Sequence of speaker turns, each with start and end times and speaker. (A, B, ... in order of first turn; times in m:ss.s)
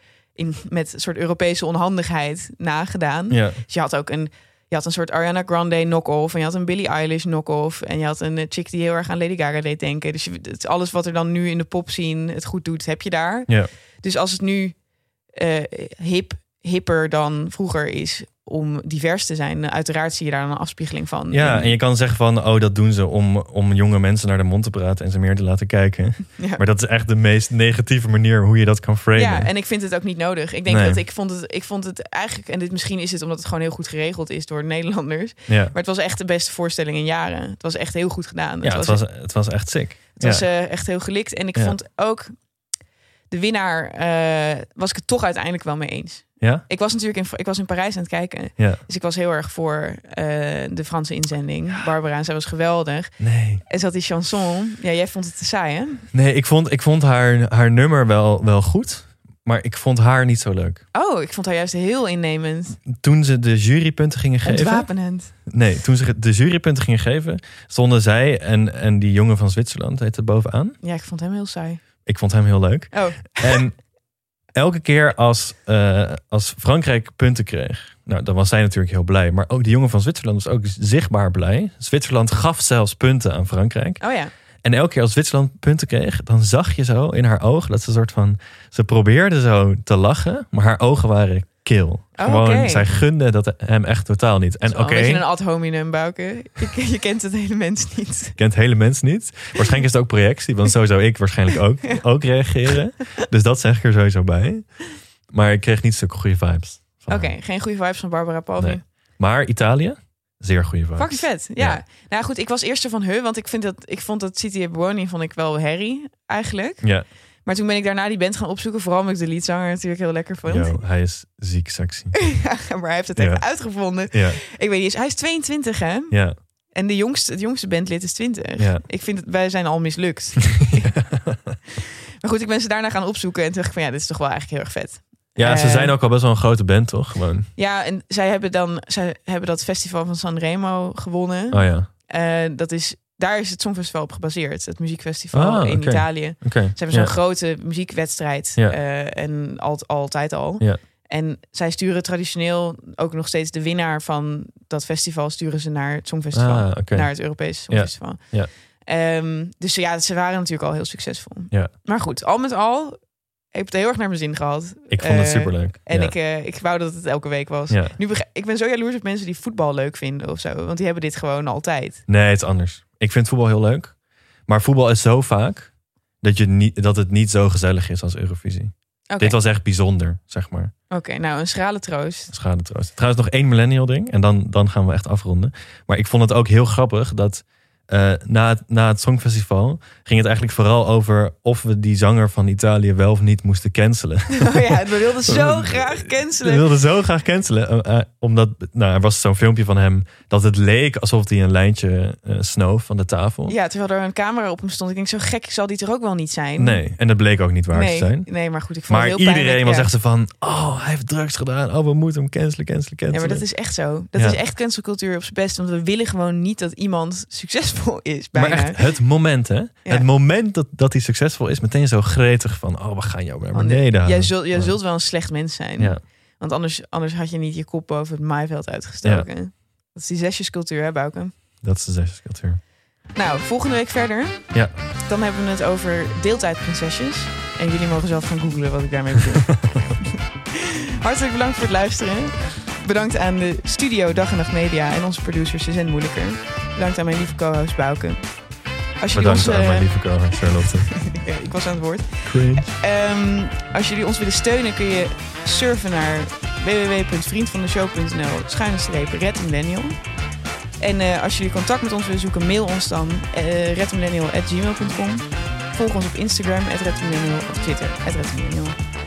0:00.4-0:14.8 A
0:03.3-0:03.6 B
0:15.3-0:21.8 A
0:21.3-0:29.5 B
0:26.4-0:26.6 A
0:29.1-0:39.0 A
0:30.7-0:31.0 B
0:35.5-0:35.7 B
0:38.6-0:40.4 B
0:40.2-0:42.3 A
0:43.3-0:56.0 A
0:53.2-0:53.6 B
0:56.1-1:00.8 B
1:00.9-1:02.8 A
1:02.8-1:04.9 B
1:04.4-1:05.3 A
1:05.4-1:10.8 B
1:10.8-1:11.8 A
1:12.0-1:13.8 B
1:12.9-1:13.6 A
1:14.5-1:24.0 B
1:24.0-1:24.3 A
1:24.6-1:35.2 B
1:32.2-1:32.9 A
1:34.6-1:38.4 A
1:38.4-1:44.6 B
1:45.3-1:47.3 B
1:47.1-1:48.8 A
1:48.6-1:51.8 B
1:51.0-1:56.9 A
1:57.4-2:00.8 A
2:00.5-2:02.2 B
2:02.1-2:11.0 A
2:03.2-2:04.4 B
2:06.1-2:06.4 B
2:08.6-2:08.8 B
2:10.6-2:11.6 B
2:11.8-2:16.0 A
2:15.3-2:17.5 B
2:17.6-2:43.0 A
2:21.5-2:21.9 B
2:25.3-2:27.1 B
2:36.3-2:38.5 B
2:43.5-2:52.0 A
2:44.9-2:46.1 B
2:47.7-2:48.0 B
2:52.1-2:54.0 B
2:54.5-3:00.7 B
2:59.1-2:59.4 A
3:00.9-3:02.3 A
3:02.3-3:23.6 B
3:14.3-3:16.7 A
3:23.5-3:26.8 A
3:26.6-3:28.3 B
3:27.7-3:29.9 A
3:28.9-3:33.5 B
3:33.1-3:39.0 A
3:38.3-3:44.8 B
3:43.5-3:51.3 A
3:51.6-3:52.6 B
3:53.1-4:08.3 A
4:09.0-4:20.0 A
4:09.1-4:10.9 B
4:12.2-4:12.7 B
4:20.8-4:28.8 A